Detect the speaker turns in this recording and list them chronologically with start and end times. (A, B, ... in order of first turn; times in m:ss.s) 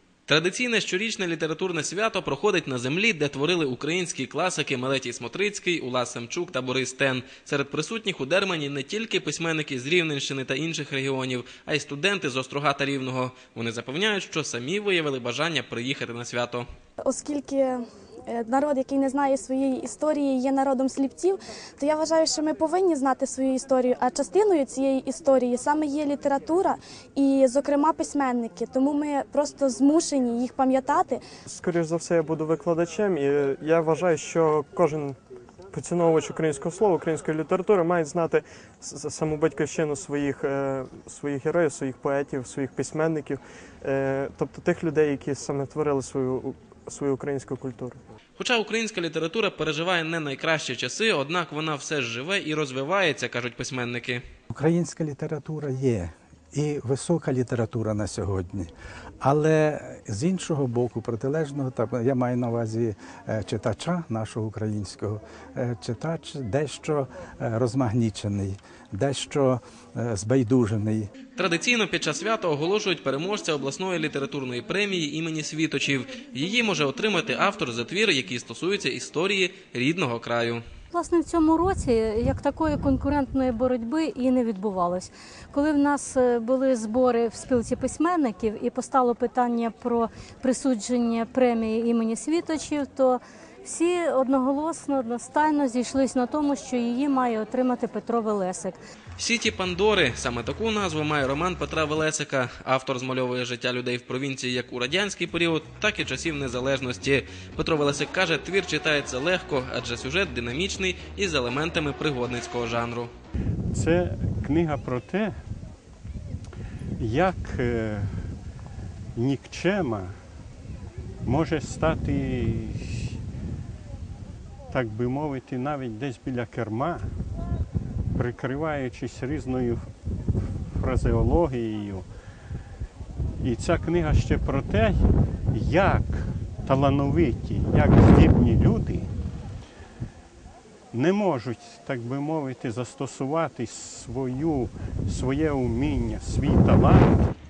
0:00.3-0:16.7 A
0:17.0-0:31.2 B
0:31.5-0:35.2 C
0:35.7-0:48.0 C
0:48.4-0:54.2 A
0:54.5-0:58.7 D
0:59.2-1:11.1 D
1:11.4-1:20.6 A
1:20.9-1:38.8 E
1:39.2-1:53.1 A
1:53.7-1:55.3 F
1:57.0-1:58.2 F
1:59.1-2:00.2 F
2:01.2-2:03.1 F
2:04.7-2:07.1 F
2:08.2-2:09.8 F
2:10.7-2:12.0 F
2:13.4-2:19.1 F
2:20.9-2:27.3 F